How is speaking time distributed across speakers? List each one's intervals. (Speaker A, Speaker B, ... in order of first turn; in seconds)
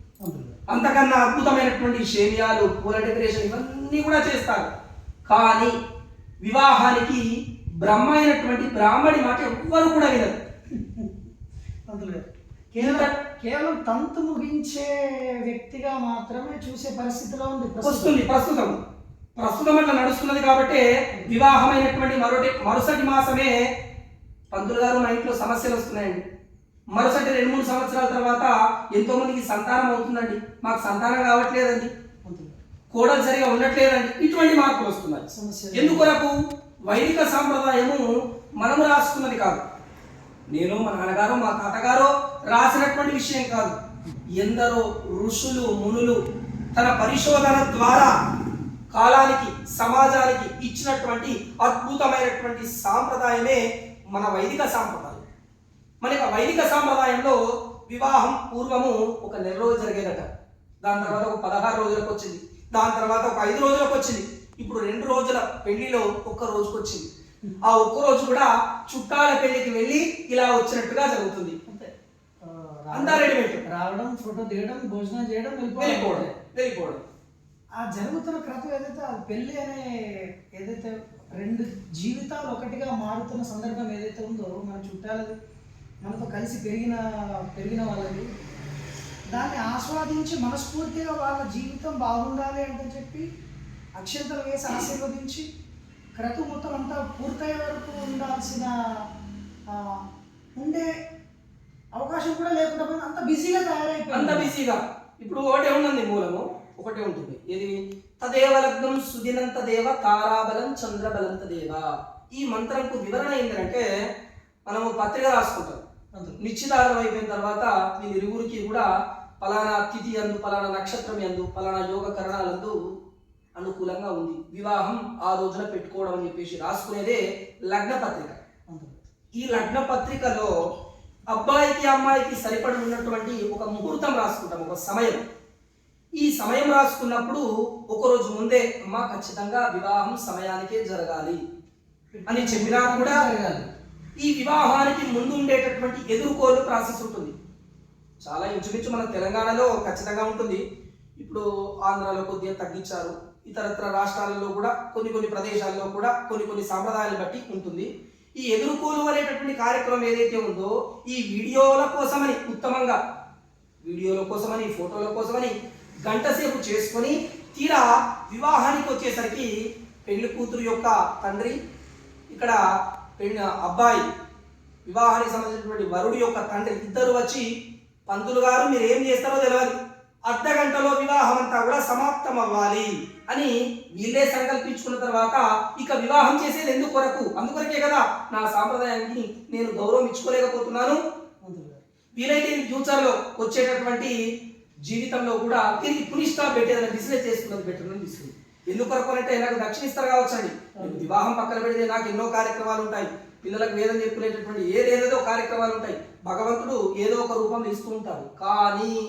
Speaker A: 0.2-0.6, 10.7-11.1, 11.9-18.2, 32.2-32.6, 35.3-36.1, 60.9-61.2, 72.4-76.3, 77.8-85.3, 86.0-87.0, 87.5-88.3, 89.3-93.3, 94.0-95.5, 96.2-98.7, 99.7-100.0, 100.6-100.9, 102.0-104.5, 128.7-129.0, 142.1-143.7, 191.4-191.8, 200.8-201.2
Speaker B: 0.7-4.7, 5.3-5.7, 6.4-7.2, 7.8-10.4, 12.8-13.1, 17.8-18.8, 19.4-23.7, 24.5-26.2, 26.9-31.9, 32.9-36.3, 36.9-38.0, 38.6-39.6, 40.5-43.8, 44.4-46.2, 46.8-48.1, 48.9-53.6, 54.1-55.2, 56.0-60.3, 60.8-67.1, 67.6-71.6, 72.9-73.6, 75.8-77.0, 104.1-113.9, 114.7-115.8, 116.4-118.9, 119.4-122.8, 123.6-128.4, 129.4-130.5, 131.3-135.2, 136.2-141.4, 142.3-143.2, 144.2-147.3, 148.2-150.6, 151.2-163.0, 163.8-165.5, 166.1-169.5, 170.1-171.6, 172.3-172.6, 173.2-174.0, 174.9-177.5, 178.1-179.8, 180.3-191.0, 192.2-194.2, 194.9-209.0